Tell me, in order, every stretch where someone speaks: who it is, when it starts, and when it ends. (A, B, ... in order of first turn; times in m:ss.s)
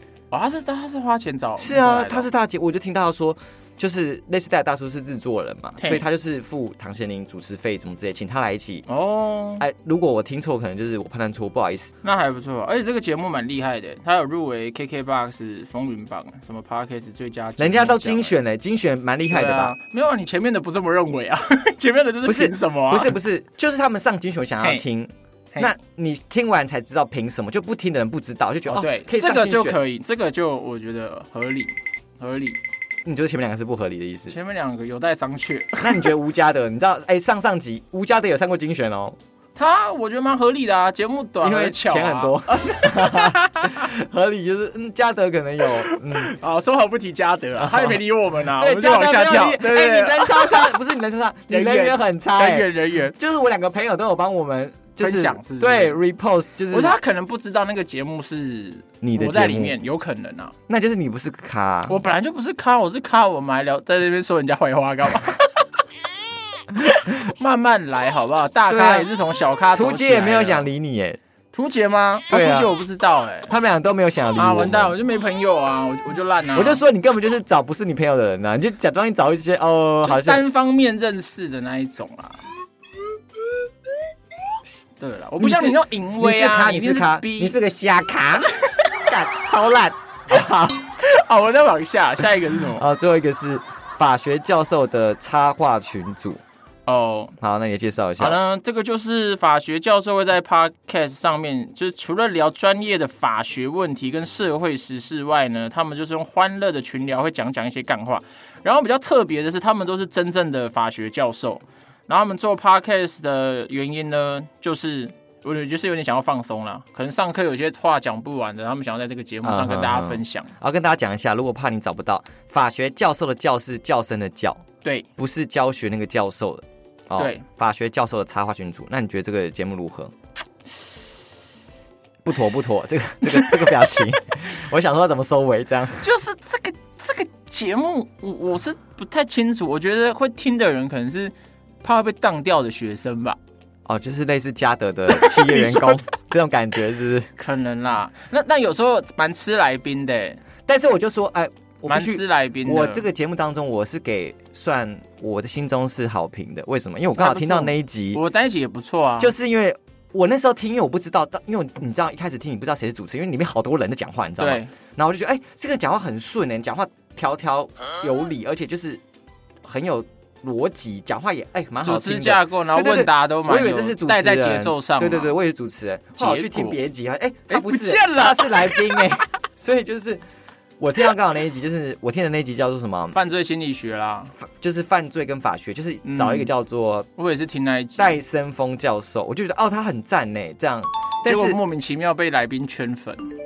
0:00.3-0:02.3 A
0:01.6-0:08.8 B
0:05.8-0:06.0 A
0:08.9-0:09.6 A
0:09.6-0:11.9 B
0:12.0-0:18.4 A
0:17.6-0:19.7 B
0:19.3-0:23.1 A
0:22.2-0:29.8 B
0:28.7-0:32.6 A
0:33.0-0:34.4 B
0:34.3-0:36.1 A
0:35.8-0:39.2 B
0:39.6-0:43.8 A
0:41.4-0:46.3 B
0:45.8-0:50.8 A
0:47.6-0:56.9 B
0:51.5-0:53.2 A
0:55.0-0:56.0 A
0:56.7-1:00.5 A
0:59.0-0:59.8 B
1:00.7-1:02.0 B
1:01.9-1:05.6 A
1:06.8-1:10.7 A
1:08.7-1:09.1 B
1:09.7-1:11.2 B
1:11.5-1:13.5 A
1:12.3-1:12.7 B
1:13.5-1:14.9 B
1:14.4-1:16.8 A
1:16.5-1:20.4 B
1:20.0-1:22.4 A
1:25.0-1:27.6 A
1:25.4-1:30.8 B
1:31.0-1:32.8 A
1:32.7-1:36.4 B
1:36.8-1:37.3 A
1:37.4-1:38.4 B
1:38.2-2:00.5 A
1:59.4-2:04.6 B
2:05.2-2:10.1 B
2:07.2-2:07.4 A
2:12.2-2:16.1 B
2:13.2-2:13.6 A
2:16.0-2:23.4 A
2:23.8-2:27.3 B
2:25.1-2:26.0 A
2:27.4-2:30.4 A
2:30.7-2:38.2 B
2:31.9-2:33.0 A
2:37.2-2:39.3 A
2:39.2-2:49.0 B
2:44.4-2:44.7 A
2:49.6-3:00.2 B
2:51.8-2:55.4 A
2:56.2-2:56.8 A
2:57.5-2:59.1 A
3:00.8-3:03.2 B
3:03.1-3:04.3 A
3:04.4-3:07.1 B
3:06.0-3:06.5 A
3:07.2-3:08.1 A
3:08.0-3:11.6 B
3:11.2-3:13.2 A